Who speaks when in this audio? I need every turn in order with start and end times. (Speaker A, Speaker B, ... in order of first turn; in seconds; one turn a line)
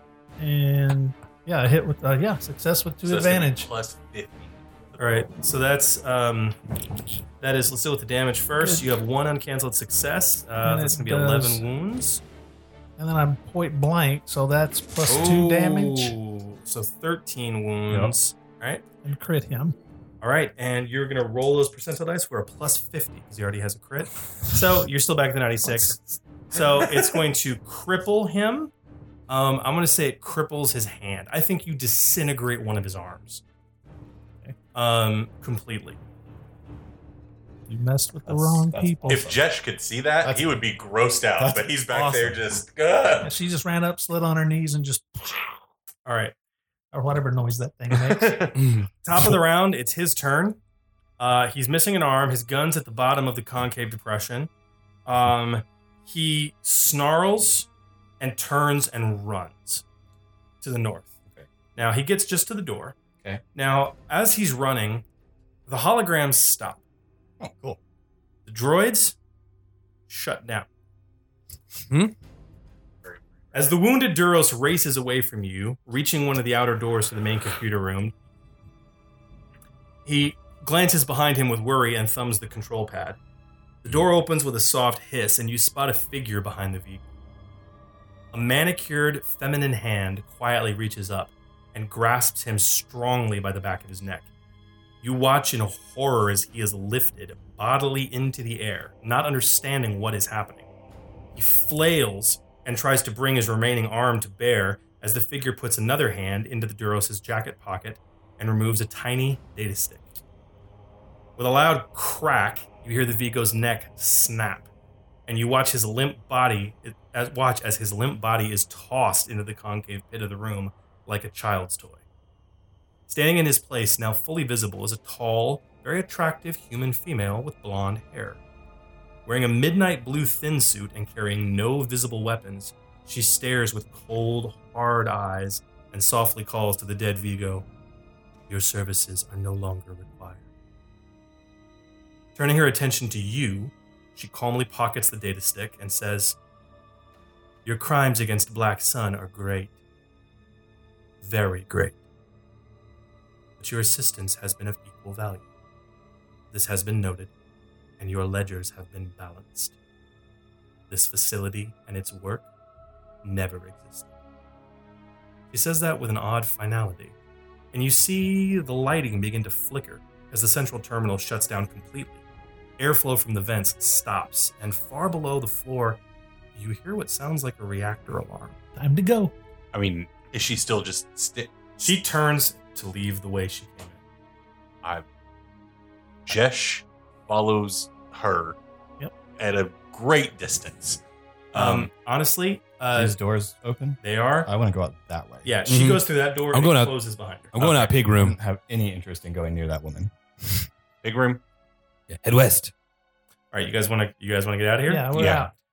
Speaker A: 0.4-3.7
Speaker B: 3.0-5.3
Speaker C: 5.0-6.6
Speaker C: 7.4-12.2
Speaker A: 8.6-8.9
Speaker A: 10.6-11.6
Speaker A: 13.0-16.1
Speaker C: 15.1-18.8
Speaker A: 19.0-19.8
Speaker C: 20.2-26.0
Speaker C: 26.5-28.7
Speaker C: 29.3-33.4
Speaker C: 34.7-36.0
Speaker A: 37.7-39.2
Speaker D: 38.2-39.4
Speaker B: 39.0-43.3
Speaker D: 40.2-40.6
Speaker D: 41.4-42.6
Speaker A: 43.2-45.5
Speaker C: 46.0-46.3
Speaker A: 46.9-48.5
Speaker B: 47.9-48.5
Speaker E: 48.6-48.9
Speaker C: 49.0-50.6
Speaker C: 51.2-54.5
Speaker C: 55.0-57.7
Speaker C: 58.2-59.8
Speaker C: 60.6-61.1
Speaker C: 61.8-62.9
Speaker C: 63.5-65.0
Speaker C: 65.7-66.8
Speaker D: 67.4-67.8
Speaker C: 68.5-69.2
Speaker C: 70.1-70.7
Speaker E: 71.8-72.1
Speaker C: 73.5-78.1
Speaker C: 80.0-83.2
Speaker C: 83.8-87.0
Speaker C: 88.3-94.3
Speaker C: 95.0-100.6
Speaker C: 101.3-110.1
Speaker C: 111.4-114.7
Speaker C: 115.3-122.0
Speaker C: 123.1-128.4
Speaker C: 129.2-137.7
Speaker C: 138.5-140.4
Speaker C: 142.3-146.4
Speaker C: 147.6-149.7
Speaker C: 151.2-151.9
Speaker C: 153.6-155.4
Speaker C: 156.5-157.3
Speaker C: 158.0-159.7
Speaker C: 160.9-162.4
Speaker C: 163.2-164.1
Speaker C: 165.5-167.1
Speaker C: 167.7-172.2
Speaker C: 172.8-176.0
Speaker C: 176.5-178.6
Speaker A: 178.8-179.3
Speaker B: 179.7-182.0
Speaker C: 181.8-184.0
Speaker B: 186.2-188.6
Speaker B: 189.4-191.0
Speaker B: 191.5-191.9
Speaker C: 191.5-193.1
Speaker D: 192.9-195.5
Speaker C: 194.0-194.5
Speaker C: 195.4-197.6
Speaker E: 195.7-196.9
Speaker E: 197.5-198.3
Speaker B: 197.6-197.9
Speaker D: 198.1-200.1
Speaker B: 201.0-201.4
Speaker E: 202.1-202.7
Speaker C: 203.5-205.2
Speaker A: 204.9-205.5
Speaker B: 205.1-205.5